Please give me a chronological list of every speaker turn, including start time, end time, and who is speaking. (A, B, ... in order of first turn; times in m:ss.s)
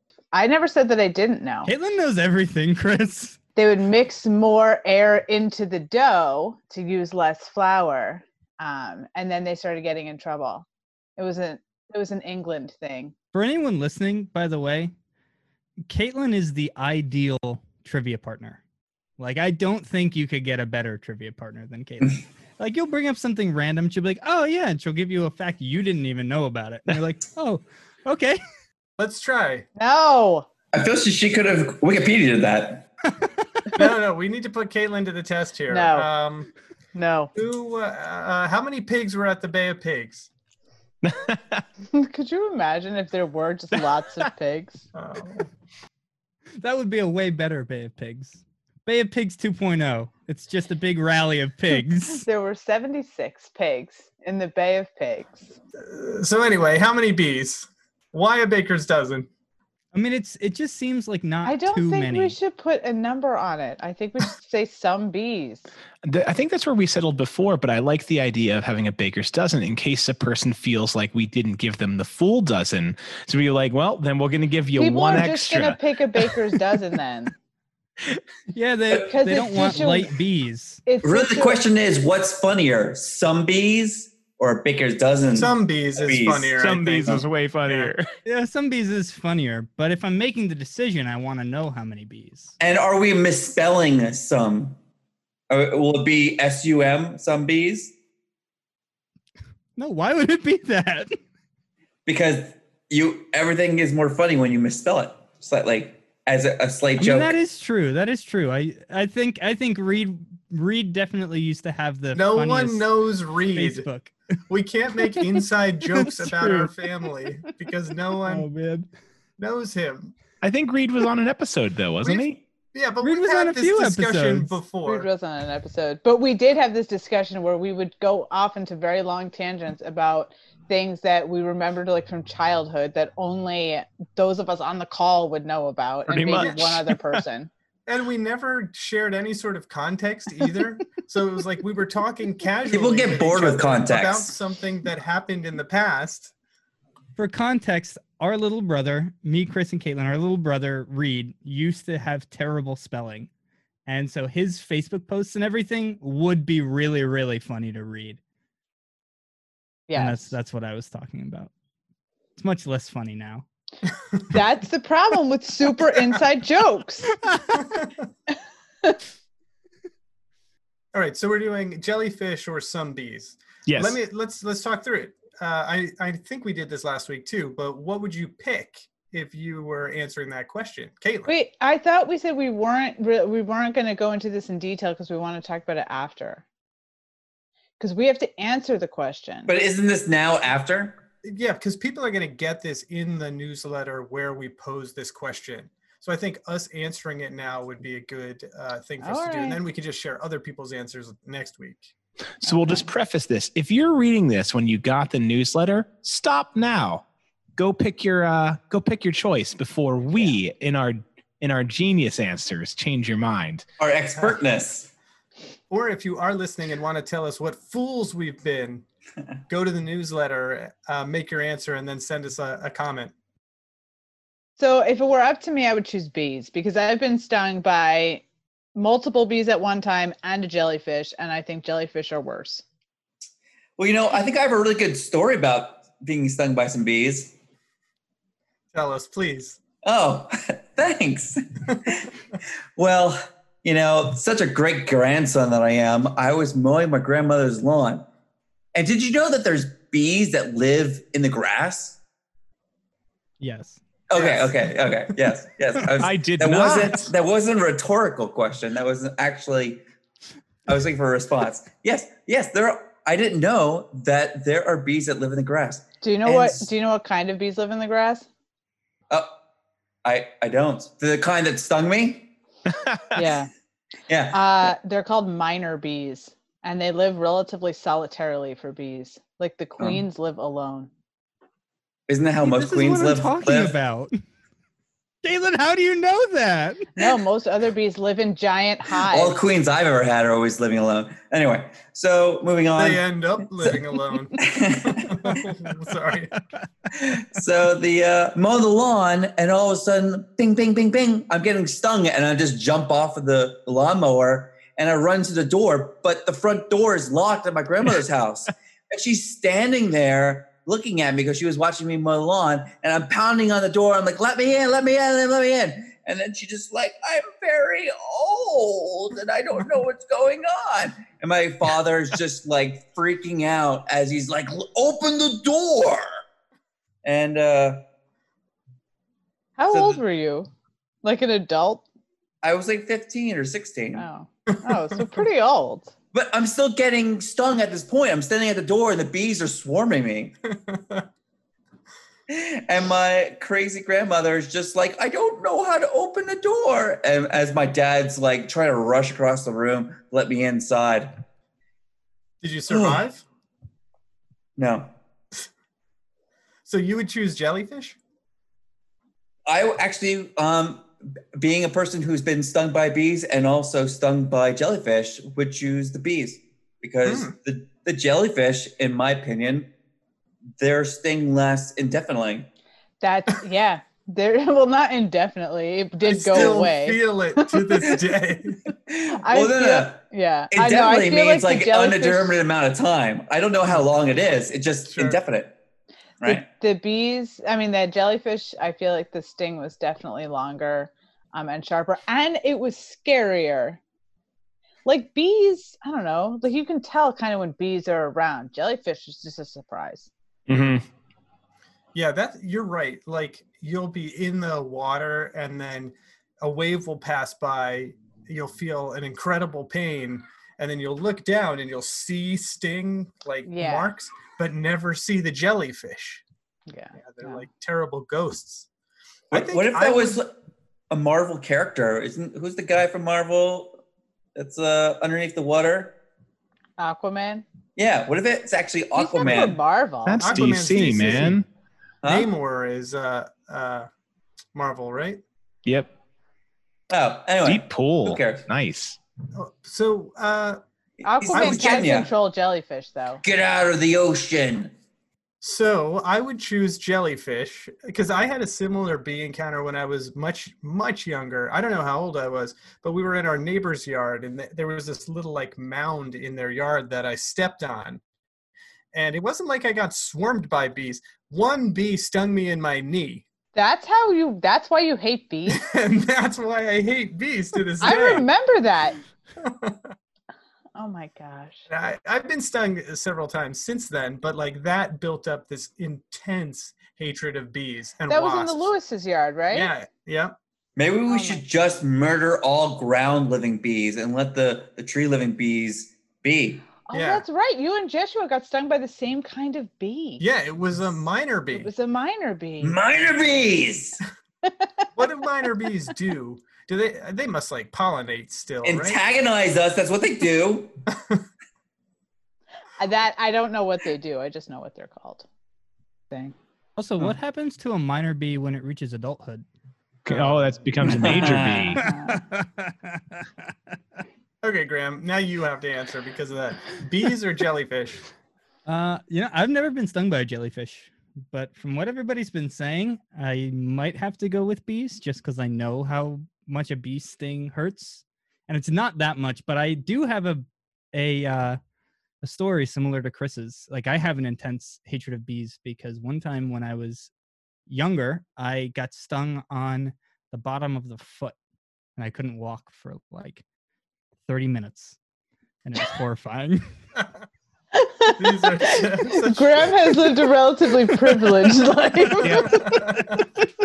0:00.3-0:01.7 A
0:01.6-0:03.4 B
0:03.5-0:10.6 A
0:11.2-0:13.1 A
0:13.3-0:14.9 B
0:15.9-0:18.6 B
0:19.2-0:28.4 B
0:29.0-0:29.7 C
0:29.8-0:30.4 A
0:30.7-0:32.9 D
0:33.7-0:36.5 C
0:35.7-0:36.1 A
0:36.9-0:37.3 A
0:37.3-0:40.3 C
0:41.0-0:41.6 E
0:41.9-0:44.9 A
0:44.9-0:45.5 C
0:46.6-0:52.3 B
0:52.2-0:55.5 A
0:55.8-0:59.3 C
0:59.9-1:02.4 B
1:01.4-1:05.7 A
1:06.0-1:16.8 E
1:14.8-1:17.3 A
1:18.5-1:20.8 B
1:19.0-1:20.1 A
1:20.8-1:21.6 A
1:21.0-1:26.6 D
1:25.3-1:27.9 C
1:26.6-1:28.1 E
1:28.2-1:32.5 B
1:32.6-1:34.8 D
1:35.5-1:37.9 D
1:39.8-1:41.2 B
1:42.0-1:47.3 D
1:47.0-1:52.9 B
1:52.1-1:53.9 C
1:53.5-1:54.1 B
1:54.5-1:58.5 C
1:55.9-1:56.7 B
1:58.2-1:58.9 B
1:59.4-2:00.1 C
2:00.4-2:02.4 E
2:02.0-2:05.1 C
2:03.0-2:04.6 B
2:04.8-2:17.5 A
2:16.1-2:17.2 E
2:17.9-2:26.3 C
2:22.7-2:24.3 D
2:27.2-2:33.3 B
2:33.9-2:38.2 B
2:39.9-2:40.3 A
2:39.9-2:41.5 B
2:42.4-2:43.4 B
2:44.3-2:47.2 A
2:47.3-2:47.6 B
2:50.9-3:01.3 C
2:53.6-2:54.0 E
3:01.3-3:06.4 A
3:07.8-3:09.5 A
3:09.5-3:11.0 D
3:11.2-3:21.9 C
3:19.0-3:19.6 A
3:22.4-3:27.0 E
3:22.5-3:22.8 A
3:27.6-3:33.6 E
3:33.8-3:34.9 D
3:35.7-3:38.8 C
3:39.5-3:43.1 C
3:44.6-3:48.2 A
3:48.7-3:52.6 A
3:53.8-3:57.3 D
3:58.7-3:59.6 C
3:59.8-4:02.1 D
4:02.8-4:08.0 D
4:08.7-4:12.0 D
4:13.4-4:13.8 B
4:14.1-4:19.8 D
4:14.1-4:15.2 C
4:16.0-4:17.1 E
4:20.7-4:26.7 D
4:26.0-4:28.2 A
4:30.0-4:32.3 D
4:32.7-4:33.2 E
4:33.1-4:33.5 A
4:34.1-4:34.7 D
4:34.3-4:40.9 A
4:42.1-4:43.7 D
4:42.4-4:44.1 B
4:45.2-4:47.1 B
4:47.0-4:49.4 A
4:49.0-4:53.0 D
4:52.7-4:56.3 C
4:54.4-4:55.4 D
4:56.9-5:26.1 D
5:27.0-5:27.8 D
5:29.6-5:30.5 A
5:29.7-5:30.0 D
5:31.0-5:31.8 A
5:32.4-5:34.1 D
5:33.9-5:35.9 A
5:36.1-5:40.3 D
5:40.5-5:41.0 C
5:42.3-5:51.1 D
5:52.4-5:53.2 C
5:52.7-5:53.0 D
5:54.6-5:54.9 D
5:56.6-5:58.0 C
5:59.5-6:09.7 D
6:07.0-6:07.3 C
6:10.6-6:12.5 D
6:13.0-6:18.0 A
6:16.0-6:18.6 C
6:18.9-6:25.6 D
6:19.2-6:22.4 A
6:24.9-6:25.2 C
6:26.2-6:33.8 A
6:34.8-6:40.1 A
6:40.5-6:40.8 E
6:41.9-6:56.2 C
6:53.4-6:53.9 A
6:56.7-6:57.4 A
6:57.0-6:58.7 C
6:59.3-7:00.2 C
6:59.3-7:00.3 D
7:00.9-7:03.8 D
7:04.4-7:06.0 D
7:06.8-7:07.4 A
7:07.8-7:09.6 D
7:09.0-7:10.5 A
7:10.0-7:11.4 E
7:10.2-7:11.4 C
7:12.0-7:12.3 D
7:12.0-7:13.9 C
7:14.5-7:15.2 C
7:16.9-7:18.4 D
7:17.4-7:19.0 E
7:19.3-7:20.6 C
7:21.0-7:23.2 A
7:21.0-7:22.1 D
7:21.3-7:21.9 C
7:23.2-7:24.7 D
7:25.4-7:38.0 C
7:38.9-7:43.2 C
7:43.5-7:45.6 A
7:45.5-7:48.3 C
7:47.8-7:49.0 A
7:49.4-7:49.9 C
7:50.7-7:51.7 A
7:51.7-7:58.7 C
7:58.1-7:59.7 A
7:59.5-8:00.3 C
8:00.8-8:06.7 D
8:01.1-8:01.4 A
8:06.8-8:10.2 A
8:06.9-8:07.2 C
8:10.2-8:11.7 C
8:11.5-8:12.8 A
8:12.6-8:14.0 D
8:14.4-8:14.9 A
8:15.0-8:19.0 C
8:18.6-8:20.7 D
8:20.9-8:21.2 C
8:22.8-8:25.2 A
8:26.8-8:29.4 B
8:30.0-8:31.8 E
8:30.1-8:30.4 C
8:30.8-8:31.8 D
8:30.9-8:33.2 B
8:31.7-8:32.2 A
8:34.4-8:38.0 C
8:38.7-8:51.6 B
8:52.2-8:57.1 B
8:57.7-9:01.4 B
9:02.0-9:03.4 B
9:04.2-9:05.0 B
9:05.6-9:06.7 B
9:07.7-9:12.7 A
9:08.2-9:09.9 C
9:12.2-9:12.6 E
9:12.2-9:13.2 C
9:12.3-9:13.2 B